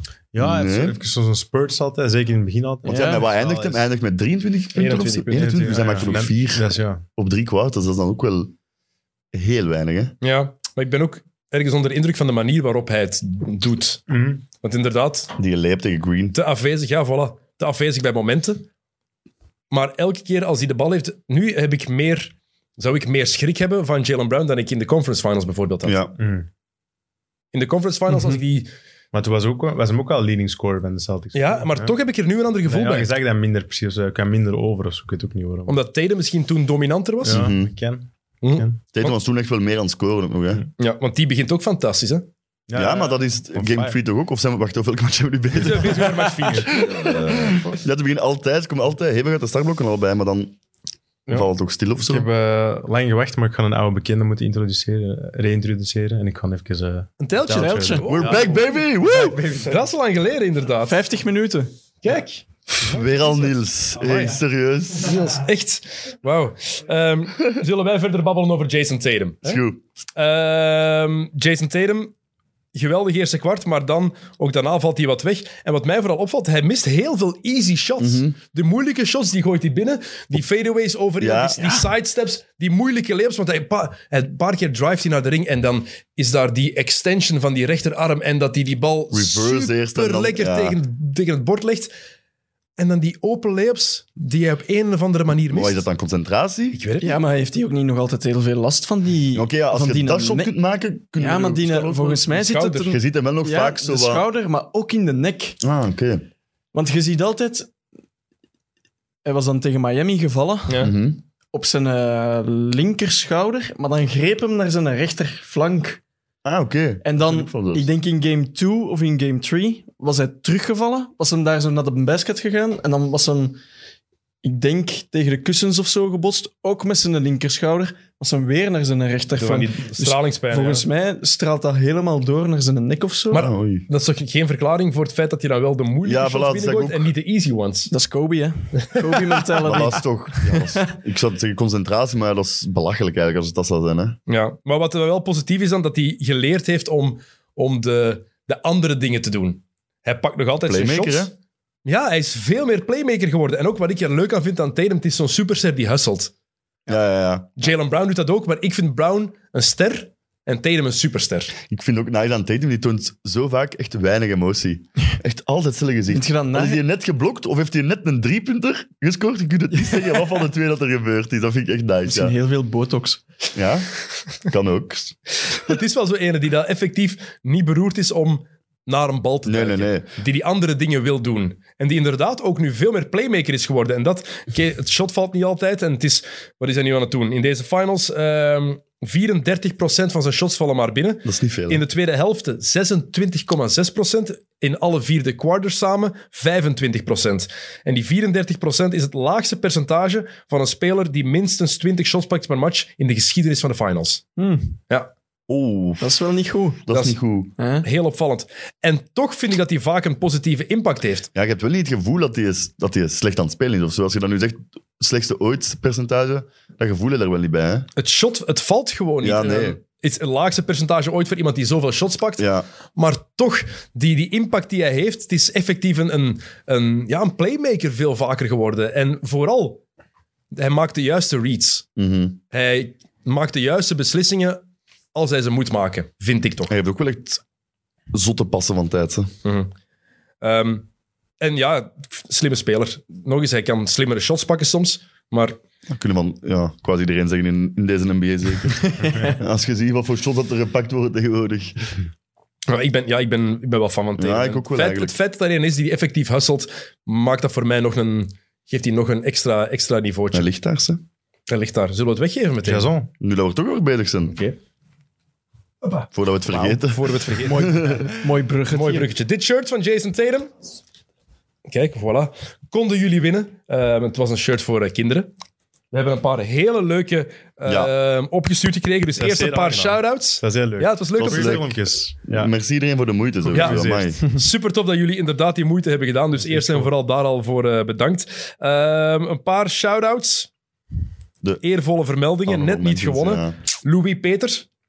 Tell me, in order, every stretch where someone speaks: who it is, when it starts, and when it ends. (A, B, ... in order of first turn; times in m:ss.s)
0:00.3-0:03.9 A
0:00.4-0:00.9 B
0:02.8-0:03.3 C
0:02.8-0:08.5 B
0:04.7-0:06.2 D
0:05.3-0:07.0 A
0:09.3-0:10.1 B
0:10.2-0:14.1 D
0:14.1-0:14.4 A
0:14.6-0:15.3 D
0:15.4-0:16.3 B
0:16.3-0:18.6 D
0:19.7-0:26.0 D
0:25.8-0:26.2 B
0:26.2-0:26.5 A
0:27.5-0:28.7 D
0:29.1-0:32.0 A
0:31.3-0:33.1 D
0:32.6-0:35.7 A
0:35.7-0:37.5 D
0:37.2-0:38.8 A
0:37.2-0:37.7 B
0:38.4-0:39.2 D
0:38.9-0:40.7 B
0:40.8-0:42.3 D
0:42.7-0:44.0 A
0:42.7-0:50.6 B
0:45.5-0:47.1 D
0:46.2-0:47.7 A
0:51.3-0:59.9 A
0:51.3-0:52.3 B
0:57.2-0:58.7 D
0:57.5-0:58.1 C
0:58.1-0:59.4 B
0:59.6-1:01.0 D
1:00.8-1:01.7 C
1:02.0-1:02.4 D
1:02.7-1:05.3 B
1:02.9-1:03.4 A
1:04.0-1:04.3 A
1:05.0-1:09.6 D
1:09.4-1:09.8 B
1:10.1-1:12.1 D
1:12.7-1:31.9 D
1:18.0-1:18.3 B
1:21.2-1:21.9 B
1:29.1-1:30.8 B
1:32.8-1:35.8 D
1:35.5-1:36.8 B
1:36.7-1:37.1 D
1:37.0-1:40.5 C
1:39.3-1:42.2 B
1:41.2-1:45.6 C
1:42.3-1:42.9 D
1:42.9-1:44.2 B
1:45.6-1:46.2 B
1:46.7-1:47.7 C
1:49.2-1:50.9 C
1:50.8-1:51.2 B
1:51.5-1:56.0 C
1:56.4-1:57.9 B
1:57.0-2:03.6 C
2:04.4-2:13.5 C
2:09.4-2:10.8 D
2:13.3-2:17.9 D
2:13.3-2:13.8 B
2:16.0-2:17.1 B
2:17.9-2:20.9 C
2:18.8-2:19.2 D
2:19.6-2:24.2 B
2:24.3-2:31.3 D
2:30.6-2:31.3 B
2:31.8-2:36.3 D
2:36.9-2:37.5 B
2:37.6-2:41.5 D
2:41.7-2:52.3 B
2:46.1-2:46.8 C
2:52.0-2:53.2 C
2:53.5-2:55.2 B
2:55.6-3:24.3 D
2:59.4-3:00.1 B
3:11.2-3:11.8 B
3:24.4-3:24.8 C
3:25.5-3:26.1 B
3:26.0-3:26.8 C
3:26.9-3:27.5 B
3:26.9-3:27.2 D
3:27.6-3:27.8 C
3:27.8-3:31.3 D
3:31.3-3:37.9 B
3:38.0-3:49.8 D
3:39.2-3:39.8 B
3:42.4-3:42.6 B
3:50.5-3:51.9 D
3:52.0-3:52.4 B
3:52.5-3:54.6 D
3:55.1-3:56.7 D
3:56.7-3:57.4 B
3:58.1-3:59.3 B
3:59.4-3:59.7 D
4:00.4-4:00.8 D
4:01.4-4:05.6 D
4:05.9-4:12.0 B
4:12.7-4:20.5 D
4:14.2-4:15.1 B
4:20.3-4:21.0 B
4:21.5-4:22.9 D
4:22.6-4:23.1 A
4:23.2-4:24.4 B
4:25.8-4:28.0 D
4:26.1-4:27.0 B
4:27.4-4:29.1 C
4:27.6-4:28.0 B
4:28.7-4:30.5 D
4:31.7-4:35.3 D
4:35.9-4:41.6 D
4:37.6-4:37.9 B
4:39.2-4:42.5 A
4:41.2-4:44.2 B
4:43.4-4:44.4 A
4:43.5-4:50.5 D
4:46.4-4:46.9 A
4:51.6-4:54.7 D
4:52.5-4:53.6 B